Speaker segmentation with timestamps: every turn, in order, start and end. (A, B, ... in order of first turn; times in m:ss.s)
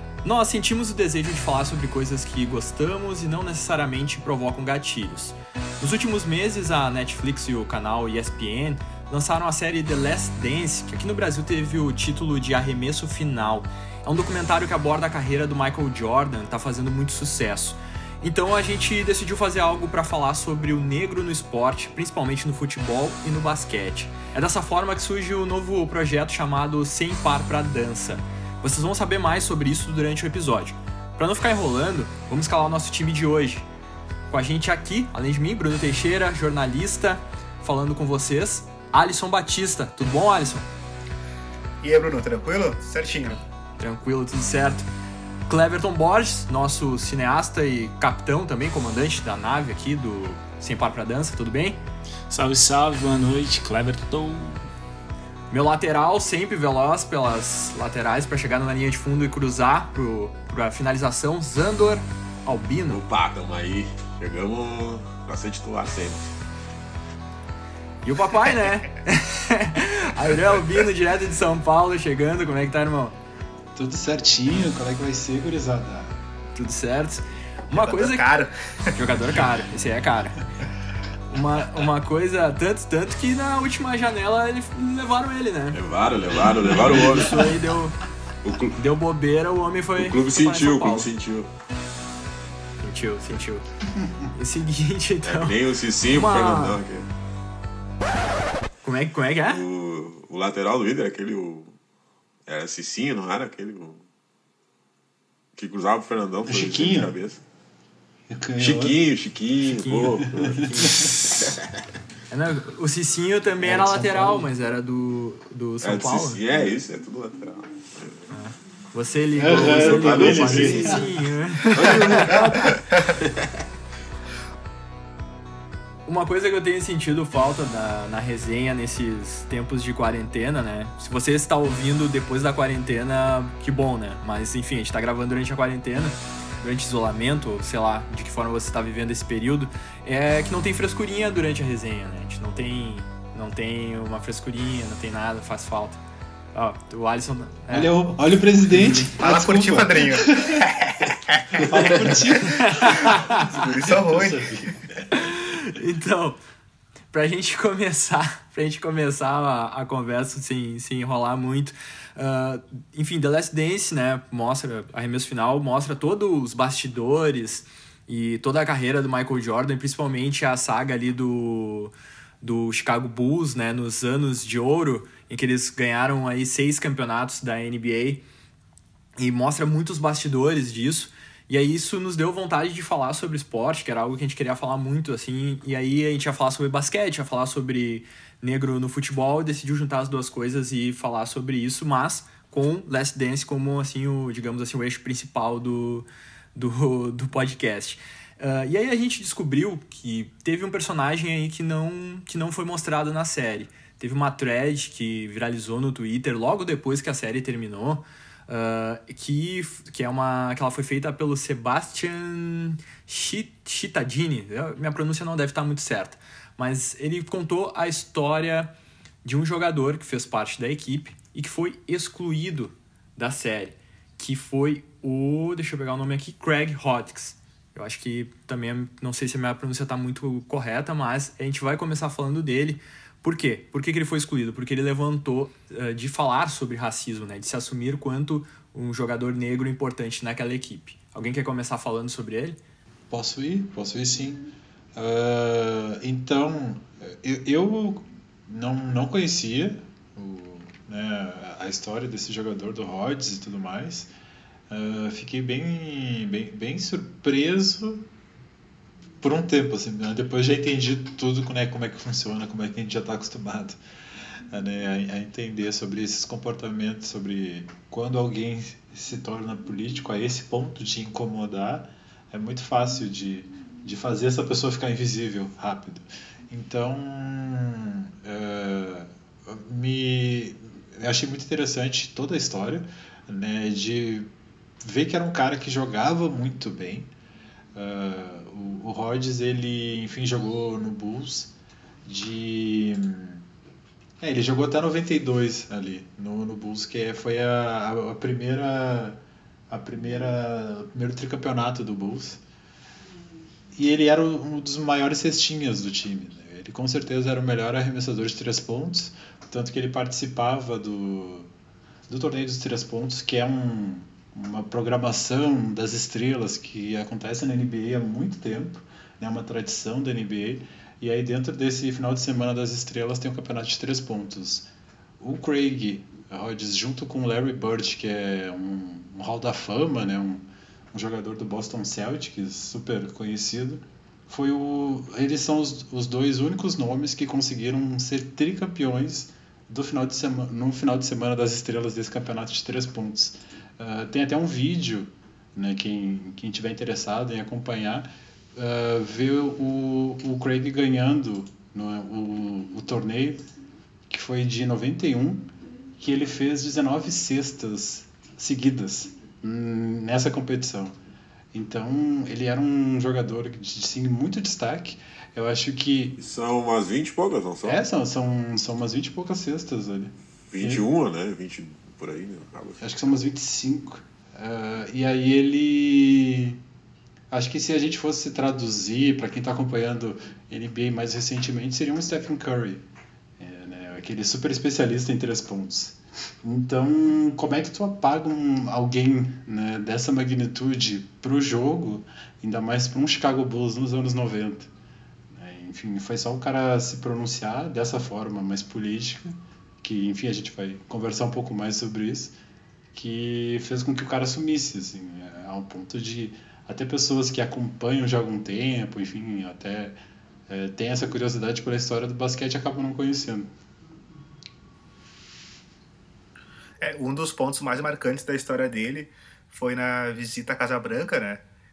0:00.2-0:33.7 A
0:34.3-0:40.7 A
0:41.8-0:43.4 B
0:43.8-0:44.9 A
0:45.5-0:51.8 A
0:52.3-0:54.6 C
0:55.5-1:03.0 A
1:02.9-1:06.3 D
1:08.0-1:13.2 A
1:13.8-1:16.2 E
1:16.6-1:18.2 A
1:17.7-1:18.9 B
1:19.0-1:20.4 A
1:21.3-1:25.8 A
1:25.7-1:27.5 D
1:26.9-1:28.0 A
1:28.4-1:28.8 D
1:28.8-1:31.1 A
1:30.0-1:31.5 D
1:32.8-1:33.7 A
1:34.3-1:35.6 A
1:35.2-1:37.1 D
1:36.1-1:36.8 A
1:38.8-1:39.6 A
1:39.4-1:41.8 D
1:42.5-1:44.0 D
1:45.5-1:47.4 D
1:46.5-1:47.1 E
1:48.3-1:49.0 E
1:48.6-1:50.9 D
1:49.6-1:51.1 A
1:50.4-1:51.0 E
1:52.3-1:56.4 A
1:53.6-1:54.5 E
1:55.8-1:58.3 D
1:58.3-2:02.4 A
1:59.4-2:01.1 E
1:59.6-2:01.1 D
2:01.7-2:03.4 D
2:06.1-2:26.0 A
2:26.5-2:27.9 A
2:27.7-2:30.7 E
2:28.7-2:29.1 A
2:29.2-2:32.1 B
2:31.5-2:34.7 E
2:32.4-2:33.5 A
2:33.0-2:34.7 B
2:35.1-2:36.4 A
2:37.1-2:58.2 A
2:59.2-3:38.7 A
3:39.2-4:02.6 A
4:03.1-4:14.1 E
4:14.7-4:18.1 E
4:19.2-4:23.8 E
4:24.5-4:44.3 E
4:44.8-4:47.1 E
4:47.8-4:51.5 E
4:52.1-4:53.4 E
4:54.2-5:02.4 E
5:03.7-5:11.5 E
5:12.1-5:24.7 E
5:25.2-5:53.5 E
5:54.1-6:01.0 E
6:01.5-6:06.2 E
6:06.2-6:07.8 D
6:07.6-6:10.8 E
6:10.5-6:12.8 D
6:12.8-6:16.6 E
6:17.3-6:22.8 E
6:23.4-6:34.7 E
6:35.3-6:42.4 E
6:42.9-6:53.5 E
6:56.8-7:01.4 B